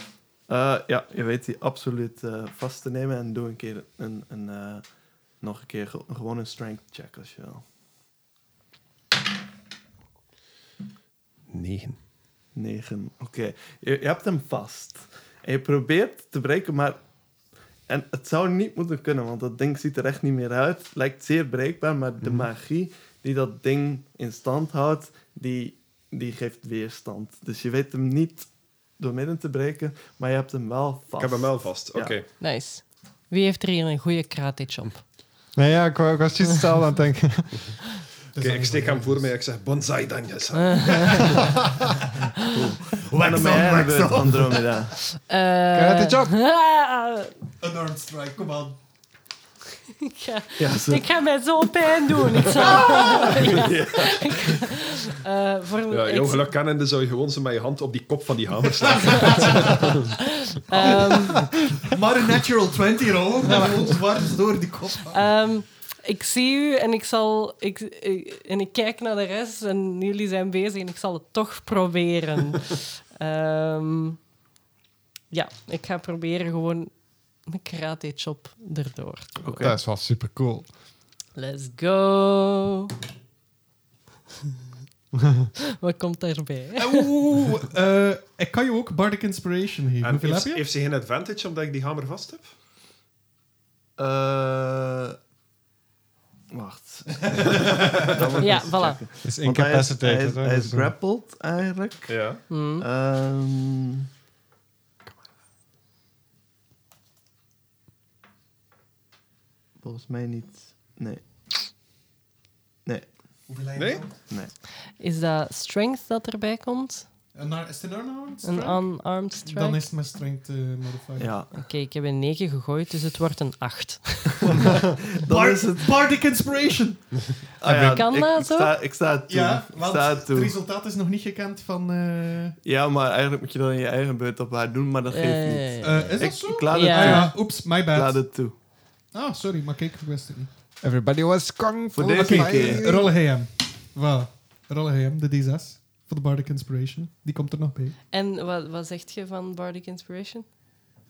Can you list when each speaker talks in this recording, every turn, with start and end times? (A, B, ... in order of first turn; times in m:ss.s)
0:00.5-0:04.8 A
0:05.4-0:07.6 A
0:11.5-0:12.0 B
0:12.5-0:17.0 A
0:17.9-0:32.2 A
0:31.2-0:32.3 B
0:32.3-0:35.0 C
0:35.5-0:37.8 D
0:38.3-0:39.3 D
0:38.4-0:41.6 B
0:40.5-0:41.5 C
0:42.2-0:42.7 C
0:42.5-0:45.0 A
0:42.8-0:45.0 E
0:45.1-0:47.4 C
0:45.7-0:46.4 D
0:47.6-0:48.8 E
0:50.0-0:56.5 C
0:50.6-0:51.1 A
0:52.1-0:54.6 A
0:55.9-1:00.1 B
0:58.8-1:00.1 E
1:00.2-1:01.5 C
1:00.8-1:05.2 E
1:05.0-1:14.2 C
1:15.3-1:16.9 C
1:17.4-1:19.7 C
1:19.4-1:19.7 A
1:19.5-1:20.7 D
1:21.3-1:22.9 C
1:25.6-1:27.1 C
1:26.8-1:30.6 E
1:30.0-1:32.5 B
1:34.0-1:35.2 A
1:36.5-1:44.1 A
1:37.2-1:38.1 E
1:38.4-1:39.0 C
1:39.2-1:40.9 D
1:42.1-1:42.4 B
1:42.5-1:42.9 C
1:49.8-1:51.2 A
1:53.5-1:54.2 E
1:53.8-1:54.0 B
1:55.0-1:57.1 C
1:57.3-2:01.3 E
1:58.4-1:59.9 C
2:01.2-2:01.6 A
2:01.5-2:04.7 C
2:04.5-2:05.9 A
2:05.2-2:07.3 E
2:07.6-2:08.8 C
2:07.6-2:10.6 A
2:09.3-2:12.6 E
2:12.6-2:18.5 A
2:15.1-2:17.4 C
2:15.8-2:18.2 E
2:19.1-2:20.5 E
2:20.8-2:23.1 D
2:21.9-2:22.8 A
2:22.1-2:28.0 E
2:28.1-2:30.4 C